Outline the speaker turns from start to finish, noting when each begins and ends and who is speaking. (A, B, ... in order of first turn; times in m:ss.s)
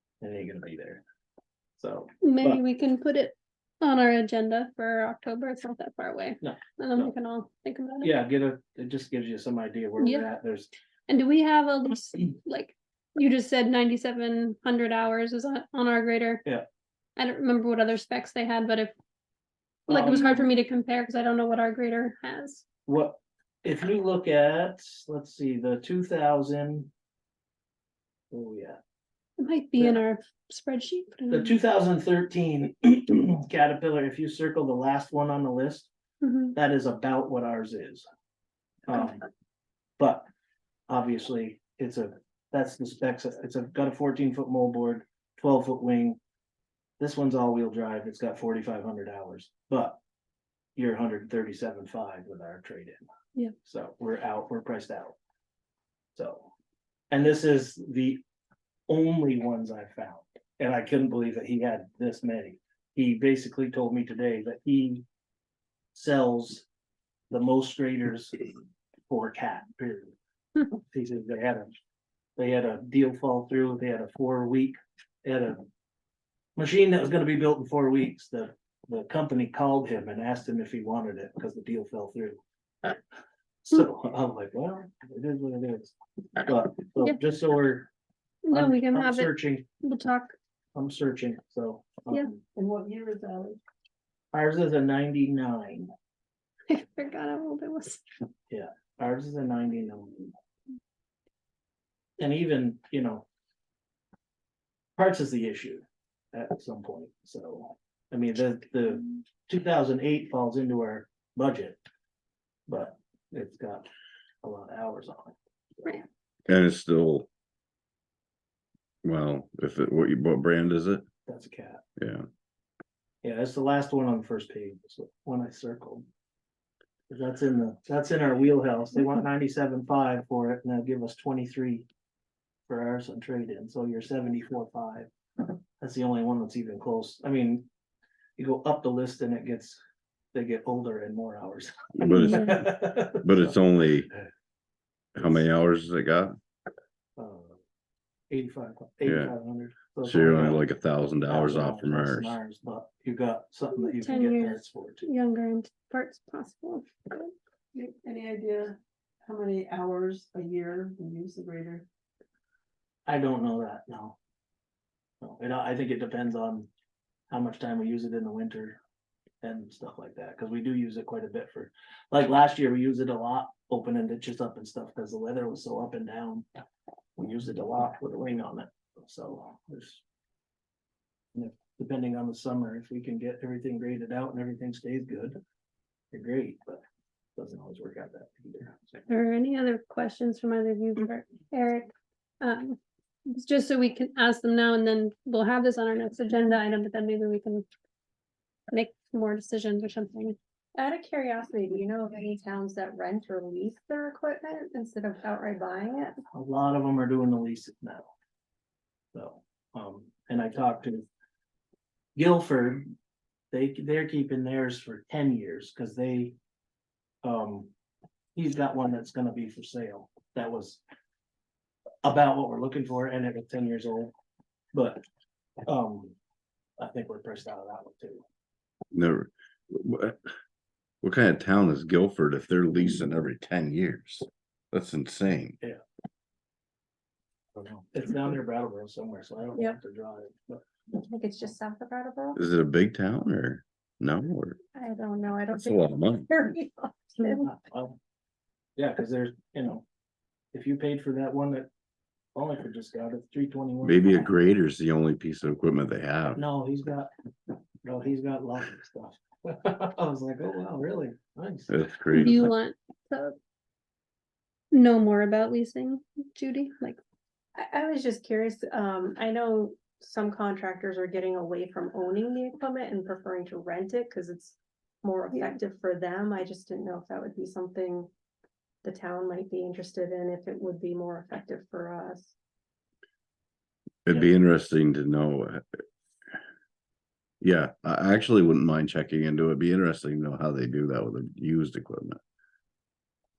0:00.2-0:01.0 A
0:01.8-0:02.6 A
0:02.2-0:08.1 B
0:06.4-0:07.1 A
0:08.0-0:10.7 A
0:10.0-0:10.2 B
0:11.1-0:16.4 B
0:17.2-0:18.9 B
0:19.9-0:20.5 A
0:19.9-0:22.6 B
0:22.9-0:26.9 A
0:28.3-0:28.8 A
0:29.4-0:31.6 B
0:31.3-0:35.9 A
0:36.2-0:36.6 B
0:36.6-0:38.1 A
0:38.9-0:39.2 A
0:40.0-0:40.3 A
0:40.9-0:46.2 A
0:47.0-0:50.0 A
0:50.8-0:53.0 A
0:53.6-0:55.2 A
0:56.2-0:56.5 A
0:57.1-0:58.2 A
0:58.9-1:05.0 A
1:05.9-1:06.7 A
1:07.3-1:08.4 A
1:09.1-1:10.2 A
1:10.7-1:11.7 A
1:12.4-1:15.6 A
1:16.6-1:23.0 A
1:23.6-1:27.9 A
1:28.4-1:30.3 B
1:28.5-1:29.7 A
1:30.8-1:32.4 A
1:32.5-1:33.6 C
1:34.3-1:35.9 A
1:36.7-1:38.0 B
1:38.5-1:40.3 A
1:42.2-1:43.3 A
1:45.0-1:51.8 A
1:52.7-1:53.9 A
1:54.4-1:55.4 A
1:56.5-1:57.3 D
1:59.0-2:01.0 D
2:01.3-2:01.8 A
2:02.0-2:02.2 D
2:03.2-2:06.1 A
2:07.1-2:11.9 A
2:12.7-2:15.1 A
2:15.8-2:17.7 A
2:18.4-2:19.8 A
2:20.3-2:23.6 A
2:22.0-2:24.1 D
2:22.1-2:22.6 B
2:25.2-2:25.4 A
2:25.2-2:26.4 D
2:27.2-2:27.6 A
2:28.3-2:30.6 A
2:29.0-2:29.3 D
2:30.0-2:32.4 D
2:31.2-2:35.1 A
2:33.8-2:37.3 B
2:37.7-2:41.9 C
2:43.1-2:44.2 A
2:45.2-2:46.7 A
2:47.3-2:48.8 A
2:49.4-2:56.5 A
2:57.2-3:00.0 A
3:01.4-3:05.4 A
3:06.1-3:06.8 A
3:07.4-3:09.0 A
3:09.1-3:12.8 B
3:13.3-3:17.7 B
3:18.7-3:20.4 B
3:20.8-3:26.2 E
3:26.3-3:28.1 A
3:29.1-3:31.1 A
3:32.2-3:32.9 A
3:33.5-3:36.4 A
3:37.2-3:37.7 A
3:38.4-3:40.8 A
3:42.0-3:44.1 A
3:44.7-3:45.0 A
3:45.7-3:46.2 A
3:46.8-3:48.2 A
3:48.9-3:50.2 D
3:51.0-3:55.6 D
3:57.6-4:00.6 A
4:00.9-4:02.4 E
4:02.4-4:04.6 D
4:04.8-4:07.5 E
4:05.5-4:06.3 D
4:07.2-4:08.0 A
4:08.8-4:09.8 A
4:10.5-4:11.7 A
4:12.4-4:14.3 A
4:13.8-4:16.4 D
4:16.4-4:17.1 A
4:17.8-4:21.7 A
4:21.7-4:22.5 D
4:22.1-4:23.4 B
4:24.7-4:27.0 B
4:27.6-4:38.1 E
4:38.8-4:42.3 E
4:44.1-4:45.8 D
4:47.4-4:52.2 D